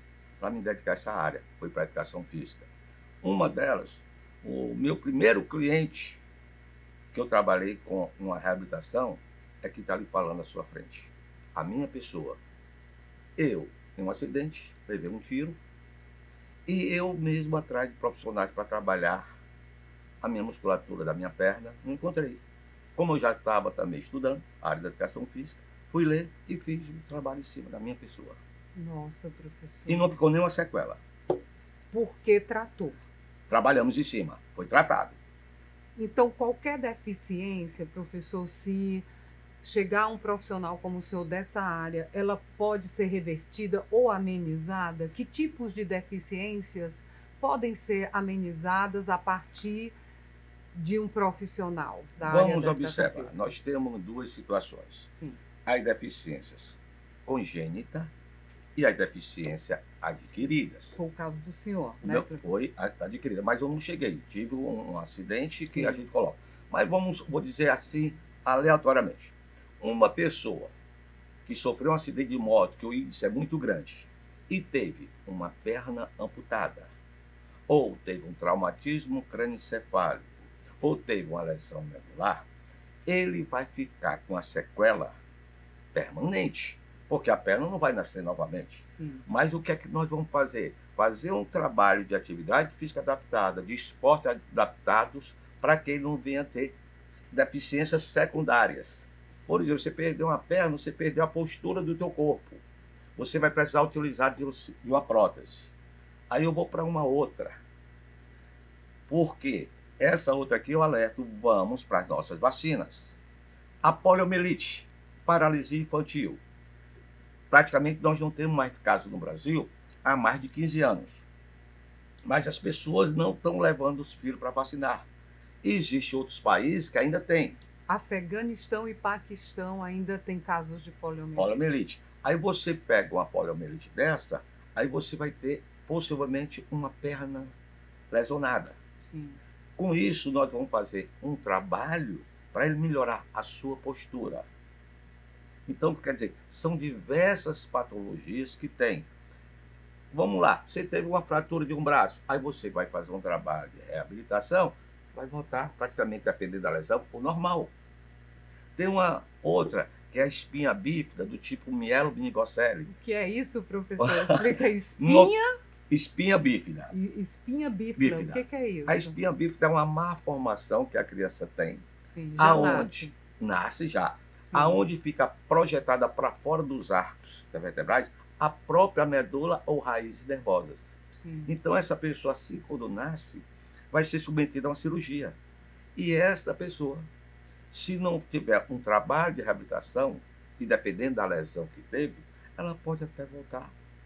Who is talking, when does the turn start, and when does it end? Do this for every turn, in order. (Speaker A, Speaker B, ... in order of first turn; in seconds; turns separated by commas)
Speaker A: 0.4-2.7, Speaker A: 3.2-6.2, Speaker A: 7.1-12.4, Speaker A: 13.4-15.6, Speaker A: 16.7-19.3, Speaker A: 20.2-22.4, Speaker A: 23.0-28.4, Speaker B: 28.8-30.2, Speaker A: 29.9-31.0, Speaker B: 31.9-33.0, Speaker A: 33.5-35.2, Speaker B: 36.0-39.1, Speaker B: 39.6-49.9, Speaker B: 50.7-53.4, Speaker A: 52.2-55.1, Speaker B: 55.1-55.4, Speaker A: 55.6-58.1, Speaker A: 58.8-61.0, Speaker B: 61.0-62.4, Speaker A: 62.0-70.7, Speaker B: 65.6-66.0, Speaker A: 71.5-76.9, Speaker A: 77.7-80.3, Speaker A: 80.8-82.5, Speaker A: 83.1-85.2, Speaker A: 85.9-102.6, Speaker B: 88.9-89.2, Speaker A: 103.2-105.7, Speaker A: 106.3-107.5, Speaker A: 109.1-113.2, Speaker A: 113.8-116.4, Speaker A: 117.5-121.2, Speaker A: 122.3-125.0, Speaker A: 125.6-127.6, Speaker B: 127.9-131.7, Speaker A: 131.4-137.5, Speaker A: 138.1-138.8, Speaker B: 139.0-139.4, Speaker A: 139.8-144.5, Speaker A: 145.7-149.1, Speaker A: 150.1-157.7, Speaker A: 158.8-162.9, Speaker B: 162.9-165.6, Speaker A: 164.0-165.3, Speaker A: 165.9-166.9, Speaker B: 166.9-169.2, Speaker A: 168.0-171.8, Speaker B: 172.1-173.1, Speaker A: 172.4-185.4, Speaker B: 174.5-174.8, Speaker B: 181.2-181.5, Speaker A: 186.0-187.1, Speaker A: 187.7-193.7